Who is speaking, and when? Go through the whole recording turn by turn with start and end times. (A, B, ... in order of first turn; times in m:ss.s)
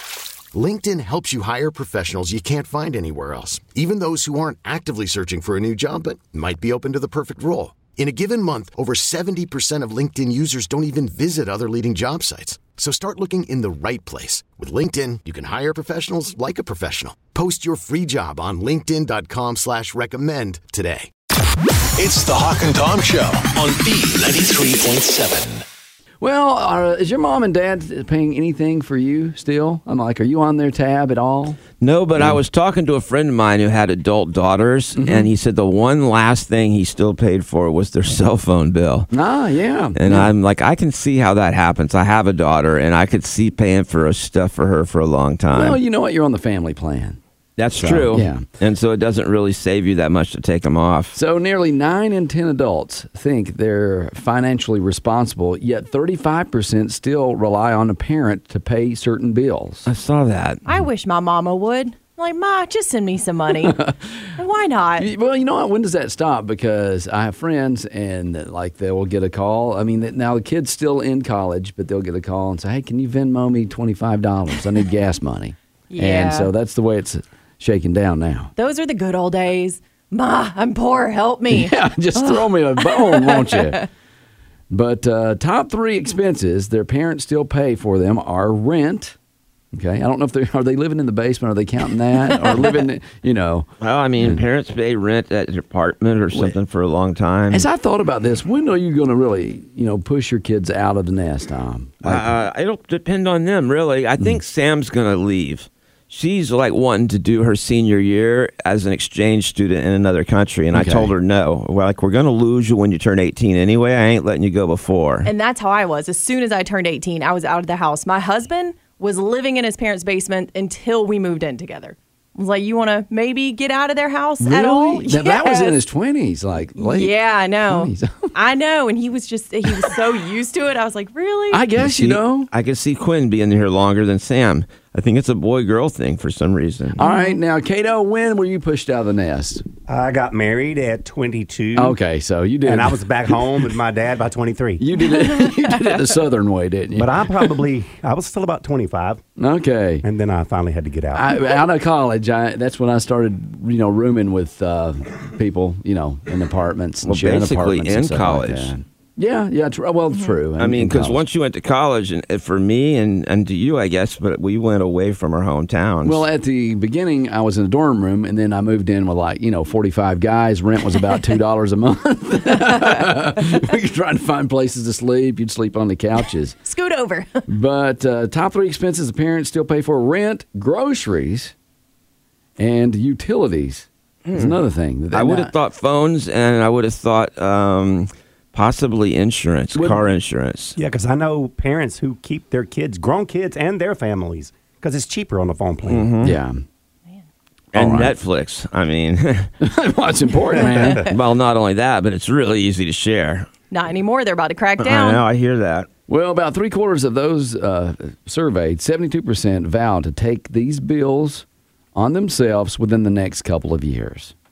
0:00.5-0:21.1 A
0:22.0-0:25.6 B
0:26.2-0:31.6 C
0:31.8-0:39.1 D
0:35.0-0:35.3 C
0:39.1-0:40.3 C
0:39.9-0:45.8 D
0:45.5-0:47.2 C
0:47.6-0:51.1 D
0:47.8-0:48.4 C
0:51.1-0:59.9 C
0:59.8-1:00.6 D
1:00.6-1:03.8 E
1:03.6-1:04.2 C
1:04.4-1:05.1 E
1:05.0-1:18.5 C
1:15.9-1:16.5 E
1:18.6-1:23.8 E
1:21.5-1:23.8 C
1:24.7-1:29.1 C
1:29.7-1:33.7 C
1:33.8-1:37.7 D
1:36.3-1:36.6 C
1:37.5-1:42.3 C
1:42.0-1:55.3 D
1:50.7-1:51.1 C
1:55.2-2:05.8 E
2:04.4-2:07.1 C
2:06.8-2:11.6 E
2:07.7-2:08.3 C
2:11.5-2:12.5 C
2:11.8-2:17.0 D
2:17.0-2:17.4 E
2:17.0-2:19.6 C
2:19.9-2:22.0 F
2:21.8-2:23.0 C
2:22.6-2:24.8 F
2:24.8-2:27.5 C
2:26.9-2:29.2 F
2:29.4-2:30.0 C
2:30.0-2:31.3 F
2:31.1-2:41.2 C
2:37.0-2:38.7 D
2:40.6-2:46.2 D
2:46.0-2:56.6 C
2:56.6-2:57.4 E
2:57.5-3:01.5 C
3:02.6-3:05.5 C
3:04.3-3:04.6 D
3:05.1-3:10.8 D
3:09.7-3:10.0 C
3:10.8-3:16.1 F
3:15.8-3:16.4 D
3:16.2-3:16.6 C
3:17.7-3:18.1 C
3:17.7-3:19.5 D
3:19.6-3:21.0 C
3:20.6-3:21.1 E
3:21.0-3:23.5 D
3:23.7-3:25.2 E
3:24.8-3:25.9 D
3:26.1-3:34.3 C